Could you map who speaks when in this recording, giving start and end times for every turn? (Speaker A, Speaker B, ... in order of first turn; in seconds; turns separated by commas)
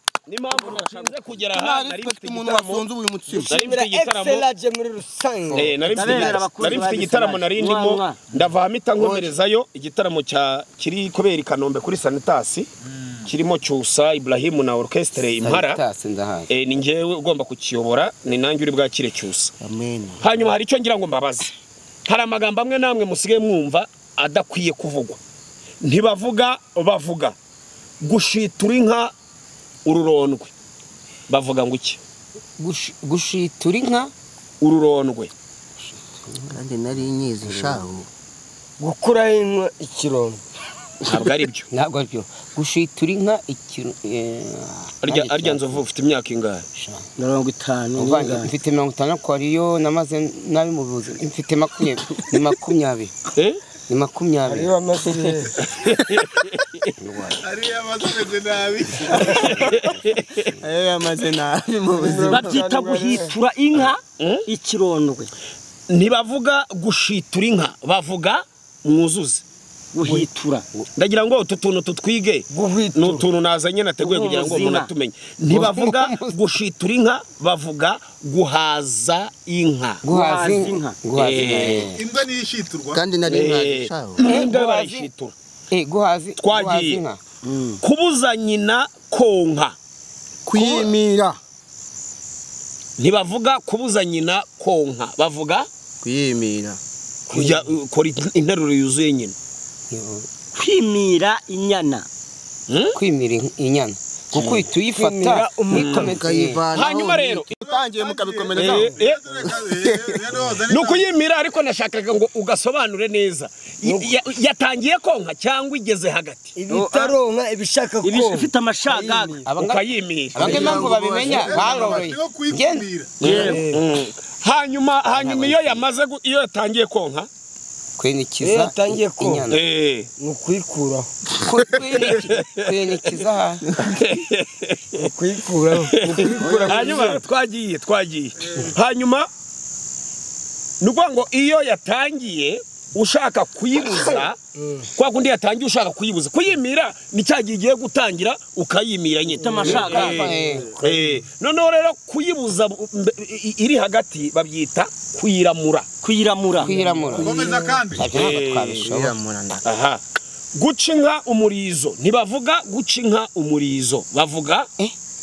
Speaker A: 0.3-2.8, Speaker B: 0.5-1.2, Speaker C: 1.5-3.5, Speaker A: 3.5-4.5, Speaker D: 3.5-6.7, Speaker A: 5.5-12.7, Speaker B: 5.8-8.2, Speaker C: 8.9-9.3, Speaker E: 12.8-13.3, Speaker A: 13.2-15.8, Speaker F: 15.4-16.5, Speaker A: 16.5-19.5, Speaker C: 19.6-20.3, Speaker A: 20.2-21.5, Speaker A: 22.1-25.2, Speaker A: 25.8-27.3, Speaker A: 28.0-29.1, Speaker A: 29.8-30.5, Speaker A: 31.3-32.0, Speaker F: 32.6-34.1, Speaker A: 34.6-35.3, Speaker C: 36.5-38.1, Speaker D: 38.8-40.4, Speaker A: 41.0-41.7, Speaker F: 41.7-45.7, Speaker A: 45.0-46.6, Speaker F: 46.8-47.0, Speaker B: 47.2-48.5, Speaker F: 47.9-53.1, Speaker A: 53.3-53.6, Speaker F: 53.9-54.7, Speaker D: 54.5-55.5, Speaker A: 55.6-56.9, Speaker F: 57.0-57.4, Speaker E: 57.4-59.7, Speaker A: 59.2-60.5, Speaker C: 60.6-62.6, Speaker D: 62.0-63.3, Speaker B: 62.3-65.3, Speaker A: 64.2-64.4, Speaker A: 65.9-69.4, Speaker B: 69.9-70.6, Speaker A: 71.0-80.0, Speaker D: 72.5-73.2, Speaker B: 74.0-74.9, Speaker F: 75.5-76.3, Speaker F: 80.0-82.0, Speaker B: 80.1-81.5, Speaker A: 81.1-81.9, Speaker E: 81.8-83.1, Speaker C: 82.9-84.2, Speaker A: 83.2-85.3, Speaker F: 84.2-85.1, Speaker F: 85.7-87.2, Speaker A: 86.4-87.0, Speaker B: 87.4-87.8, Speaker A: 87.8-89.8, Speaker C: 90.5-91.4, Speaker A: 93.0-95.7, Speaker C: 96.0-96.8, Speaker A: 97.3-99.3, Speaker F: 99.9-100.3, Speaker B: 100.5-102.1, Speaker A: 102.7-103.0, Speaker F: 102.9-106.6, Speaker D: 104.4-106.2, Speaker A: 105.7-106.2, Speaker C: 105.9-110.2, Speaker A: 106.7-107.5, Speaker E: 107.5-111.0, Speaker A: 108.5-109.2, Speaker A: 110.7-116.5, Speaker D: 113.8-114.2, Speaker D: 116.5-119.4, Speaker B: 116.7-117.2, Speaker B: 118.0-119.5, Speaker F: 119.5-122.8, Speaker A: 119.6-121.0, Speaker C: 120.3-121.6, Speaker E: 121.1-123.2, Speaker D: 121.3-122.0, Speaker B: 123.2-123.6, Speaker A: 123.2-127.3, Speaker D: 123.3-123.8, Speaker F: 125.2-125.8, Speaker F: 128.0-129.6, Speaker D: 128.4-129.4, Speaker A: 129.5-130.1, Speaker D: 130.2-131.1, Speaker F: 131.4-133.6, Speaker A: 131.9-132.7, Speaker A: 133.8-135.1, Speaker D: 135.0-137.2, Speaker A: 135.8-139.3, Speaker C: 136.4-137.0, Speaker A: 140.8-144.4, Speaker D: 144.5-144.8, Speaker A: 144.9-155.9, Speaker B: 149.4-150.4, Speaker D: 149.5-151.2, Speaker F: 149.7-150.7, Speaker B: 156.0-157.3, Speaker F: 156.6-159.1, Speaker D: 156.6-157.8, Speaker E: 157.2-158.1, Speaker A: 158.0-158.9, Speaker C: 158.8-159.7, Speaker A: 159.6-160.0, Speaker A: 160.6-164.7